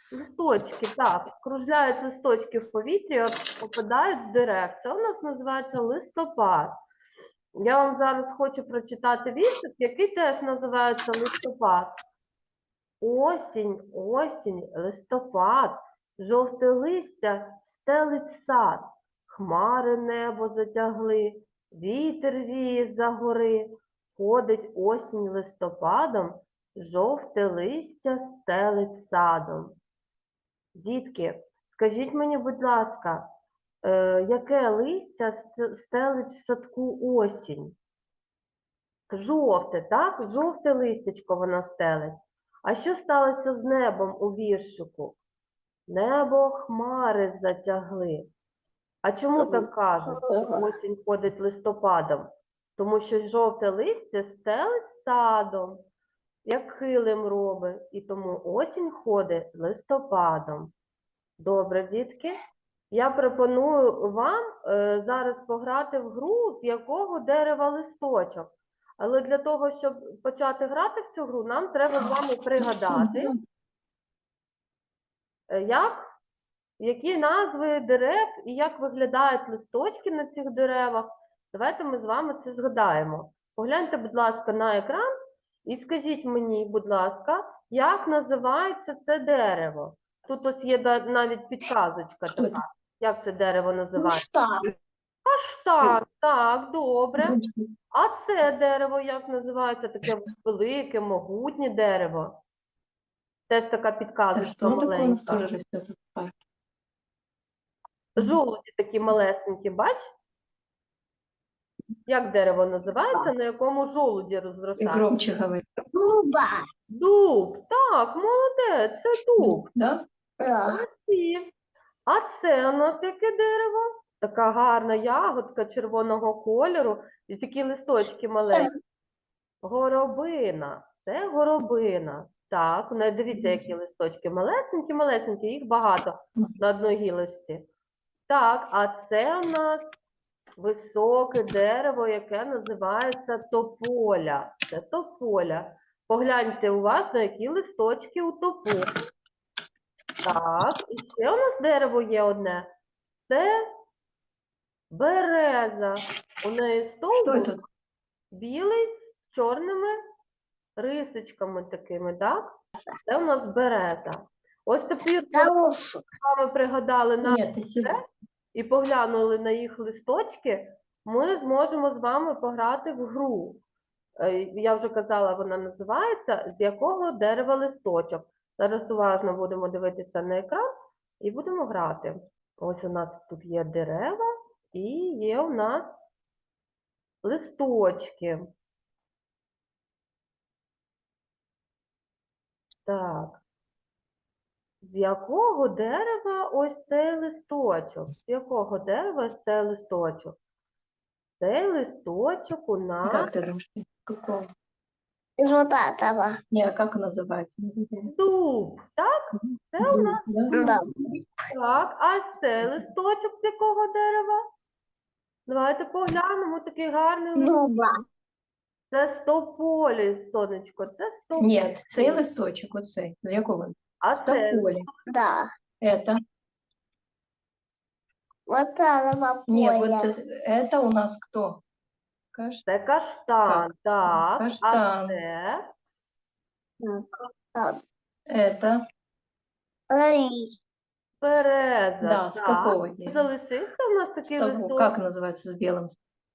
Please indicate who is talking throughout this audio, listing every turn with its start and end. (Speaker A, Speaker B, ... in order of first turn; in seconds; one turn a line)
Speaker A: 0.1-6.8
Speaker A: 7.6-11.9
Speaker A: 13.0-29.8
Speaker A: 30.8-33.3
Speaker A: 33.8-37.8
Speaker A: 39.1-45.2
Speaker A: 45.9-48.3
Speaker A: 49.0-55.8
Speaker B: 49.4-50.7
Speaker A: 56.4-60.7
Speaker A: 61.4-62.4
Speaker A: 62.9-73.3
Speaker C: 72.6-73.4
Speaker A: 75.5-76.0
Speaker A: 76.8-85.1
Speaker A: 85.6-94.2
Speaker C: 92.3-92.6
Speaker B: 94.0-94.7
Speaker A: 95.2-97.4
Speaker C: 97.2-97.7
Speaker A: 97.9-102.4
Speaker A: 103.5-105.4
Speaker C: 104.3-106.3
Speaker A: 108.2-110.1
Speaker A: 112.1-115.1
Speaker C: 114.8-115.6
Speaker B: 115.9-116.6
Speaker A: 116.9-119.7
Speaker C: 119.4-120.0
Speaker B: 120.4-120.8
Speaker A: 120.7-121.5
Speaker A: 122.1-128.7
Speaker A: 129.6-137.7
Speaker C: 133.3-133.6
Speaker A: 138.3-139.9
Speaker A: 140.6-148.9
Speaker A: 150.2-152.7
Speaker A: 153.2-153.6
Speaker A: 154.9-157.5
Speaker C: 157.2-157.6
Speaker A: 158.3-160.0
Speaker A: 160.8-165.5
Speaker B: 165.3-166.1
Speaker A: 166.2-168.0
Speaker C: 167.2-168.0
Speaker A: 168.5-173.6
Speaker A: 174.2-180.7
Speaker A: 181.2-186.0
Speaker A: 187.2-188.5
Speaker A: 192.9-193.4
Speaker A: 194.8-200.4
Speaker A: 201.4-203.3
Speaker C: 203.1-204.5
Speaker B: 205.4-206.4
Speaker C: 206.5-208.1
Speaker A: 208.1-210.2
Speaker C: 209.3-210.7
Speaker B: 210.5-211.1
Speaker A: 211.5-214.4
Speaker A: 215.5-217.9
Speaker B: 217.4-218.0
Speaker A: 218.9-222.2
Speaker C: 221.4-224.9
Speaker A: 224.0-224.9
Speaker B: 225.1-225.4
Speaker C: 225.8-226.2
Speaker B: 228.5-230.1
Speaker C: 229.5-231.6
Speaker C: 232.3-232.6
Speaker A: 232.7-235.7
Speaker C: 233.4-235.2
Speaker B: 236.8-237.8
Speaker C: 238.3-238.8
Speaker B: 239.9-240.6
Speaker A: 241.2-244.9
Speaker C: 242.0-243.3
Speaker C: 244.3-246.0